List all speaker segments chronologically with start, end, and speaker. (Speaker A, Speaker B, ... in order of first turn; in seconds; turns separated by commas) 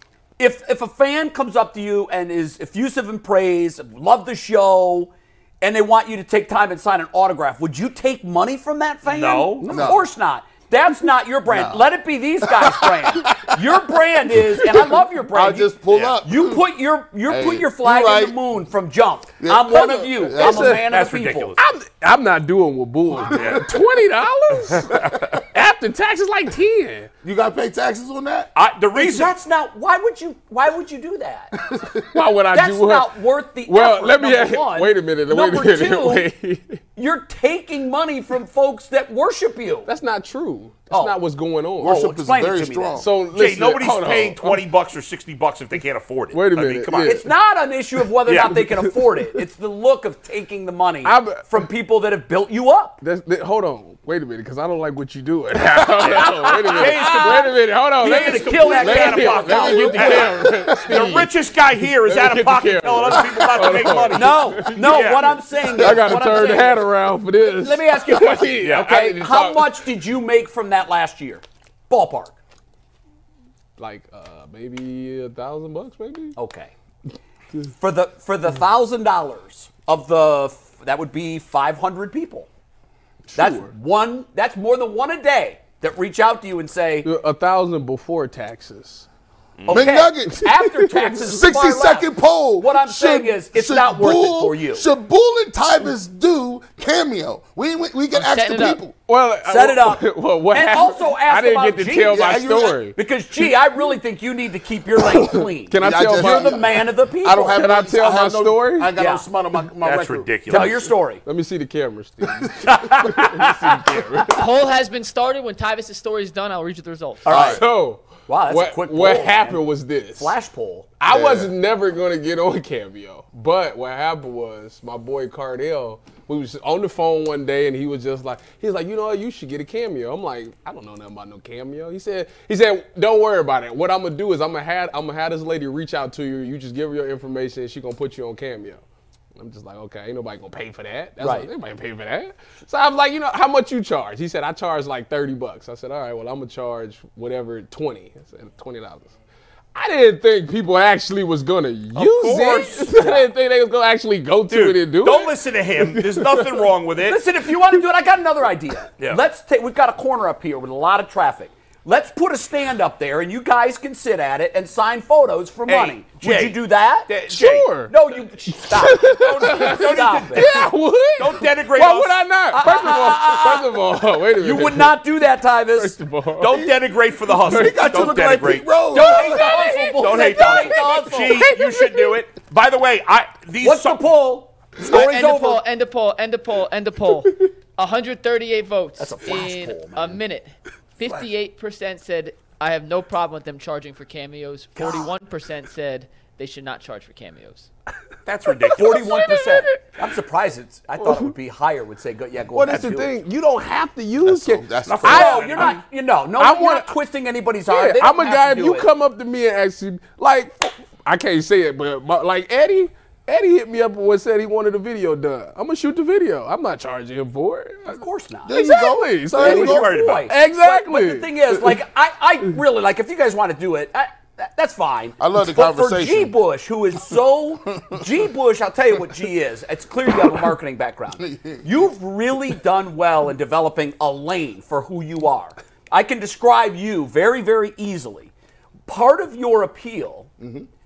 Speaker A: 0.4-21.6, Speaker B: 9.1-9.7, Speaker C: 9.6-10.0, Speaker D: 9.7-10.1, Speaker D: 11.5-11.9, Speaker D: 12.5-13.8, Speaker D: 14.6-16.7, Speaker B: 15.9-16.1, Speaker D: 17.3-18.4, Speaker D: 19.4-20.8, Speaker C: 20.3-20.9, Speaker B: 20.9-21.6, Speaker C: 21.6-27.1, Speaker B: 23.3-23.8, Speaker B: 24.9-25.2, Speaker D: 27.2-28.5, Speaker B: 28.6-29.3, Speaker A: 28.9-31.7, Speaker D: 31.7-32.0, Speaker C: 32.0-33.1, Speaker A: 32.5-36.3, Speaker C: 33.7-36.8, Speaker A: 37.0-39.9, Speaker C: 39.9-42.1, Speaker A: 40.9-41.2, Speaker A: 41.8-43.0, Speaker D: 41.8-43.1, Speaker C: 43.0-44.6, Speaker B: 43.3-47.2, Speaker C: 46.3-47.3, Speaker A: 47.0-53.0, Speaker B: 48.3-48.6, Speaker C: 48.4-48.9, Speaker C: 51.0-51.5, Speaker C: 53.0-69.8, Speaker A: 55.9-60.4, Speaker B: 56.0-65.4, Speaker D: 60.0-60.9, Speaker A: 64.1-72.4, Speaker D: 65.8-66.2, Speaker B: 68.6-68.9, Speaker C: 73.8-76.4, Speaker A: 76.4-76.7, Speaker A: 77.8-82.5, Speaker C: 83.3-83.7, Speaker A: 83.3-87.1, Speaker C: 87.0-89.1, Speaker B: 89.6-89.9, Speaker A: 89.7-94.8, Speaker D: 89.7-90.5, Speaker C: 90.3-91.2, Speaker D: 91.1-98.9, Speaker E: 98.1-98.8, Speaker C: 99.1-103.0, Speaker A: 99.5-102.3, Speaker D: 102.1-102.9, Speaker A: 103.0-107.6, Speaker C: 105.0-106.8, Speaker D: 105.8-110.7, Speaker C: 107.5-108.9, Speaker A: 109.0-109.3, Speaker B: 109.8-110.8, Speaker A: 110.5-111.2, Speaker C: 111.2-114.4, Speaker A: 112.6-114.2, Speaker E: 114.3-117.3, Speaker A: 117.2-119.6, Speaker D: 117.3-117.6, Speaker C: 117.3-120.3, Speaker A: 120.2-120.9, Speaker C: 121.0-138.8, Speaker D: 121.1-121.5, Speaker C: 139.4-149.1, Speaker A: 141.2-141.5, Speaker C: 149.7-156.6, Speaker B: 151.9-153.0, Speaker B: 154.5-157.2, Speaker A: 157.0-167.2, Speaker B: 165.7-167.8, Speaker C: 167.3-167.9, Speaker A: 167.9-170.5, Speaker C: 168.6-175.1, Speaker B: 169.4-172.2, Speaker A: 172.5-176.0, Speaker C: 175.7-176.6, Speaker B: 176.4-184.1, Speaker D: 177.4-179.3, Speaker C: 177.5-178.1, Speaker A: 178.9-181.6, Speaker C: 179.2-180.8, Speaker C: 181.8-182.1, Speaker A: 183.6-185.6, Speaker E: 184.9-197.7, Speaker A: 189.0-190.2, Speaker A: 194.8-195.1, Speaker B: 198.3-199.2, Speaker C: 198.7-199.9, Speaker A: 198.8-203.1, Speaker C: 201.0-201.3, Speaker C: 202.5-205.7, Speaker D: 204.2-205.5, Speaker B: 204.8-205.8, Speaker A: 205.1-208.9, Speaker C: 206.3-207.0, Speaker C: 207.7-221.8, Speaker A: 217.9-218.7, Speaker D: 218.5-220.0, Speaker B: 219.4-220.3, Speaker A: 219.4-238.3, Speaker D: 225.2-226.4, Speaker D: 231.2-231.9, Speaker A: 238.9-240.3, Speaker D: 240.4-240.7